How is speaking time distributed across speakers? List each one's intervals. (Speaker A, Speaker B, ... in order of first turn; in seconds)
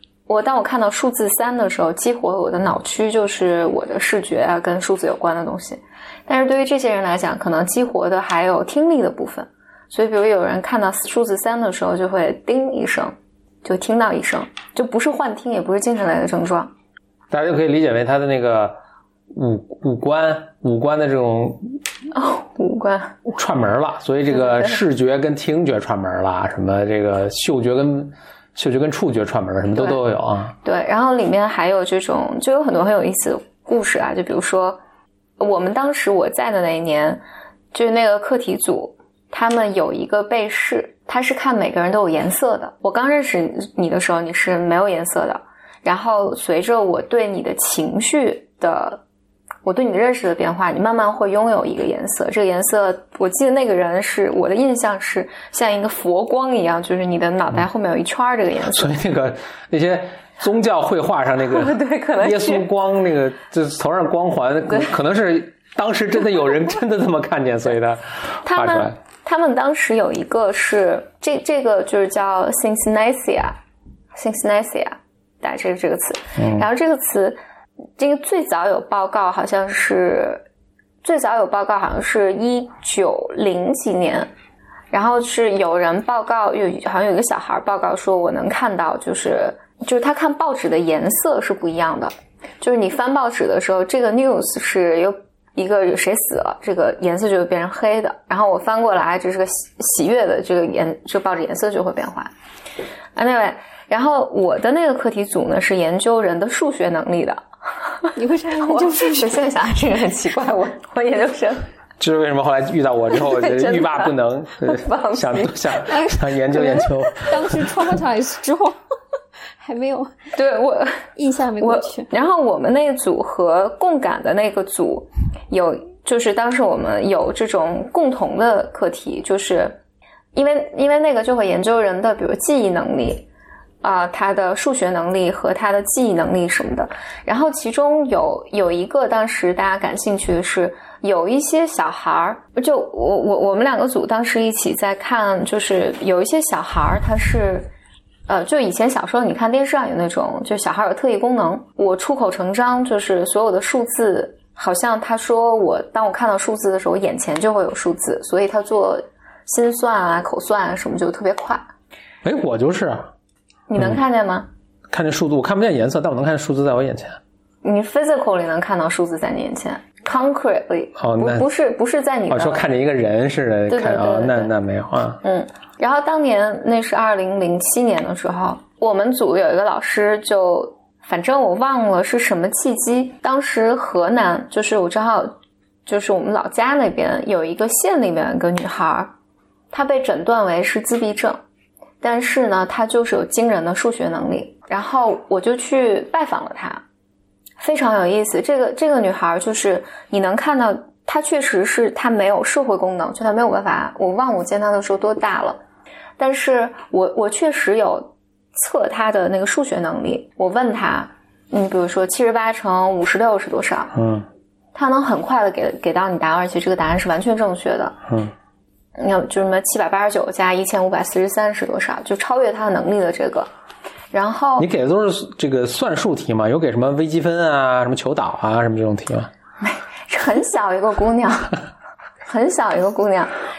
Speaker A: 0.3-16.7, 22.1-23.2, 24.3-24.8, 30.6-34.8, 35.4-37.2, 37.7-49.0, 49.6-59.0, 61.5-62.7, 68.4-73.6, 74.1-77.4, 78.0-80.4, 81.0-84.3, 84.9-102.3, 103.1-107.4, 108.0-111.6, 113.1-115.6, 120.3-121.1, 121.6-129.8, 130.3-133.2, 133.8-147.7, 148.3-161.7, 163.7-164.5, 167.6-172.7, 173.7-174.5, 175.2-185.3, 185.8-189.1, 189.7-191.4, 192.0-196.8, 197.6-205.6, 206.2-213.9, 214.7-218.0, 219.0-223.5, 224.1-224.7, 229.6-231.6, 232.2-233.3
Speaker B: 17.3-18.8, 19.3-21.8, 23.2-30.5, 58.7-69.0, 76.4-76.7, 112.0-117.7, 162.2-163.1, 163.8-164.0, 164.9-167.2, 171.0-171.4, 172.3-175.2, 213.9-214.2, 224.6-229.3
Speaker C: 108.2-109.4, 115.9-118.8, 119.6-120.3, 121.2-122.1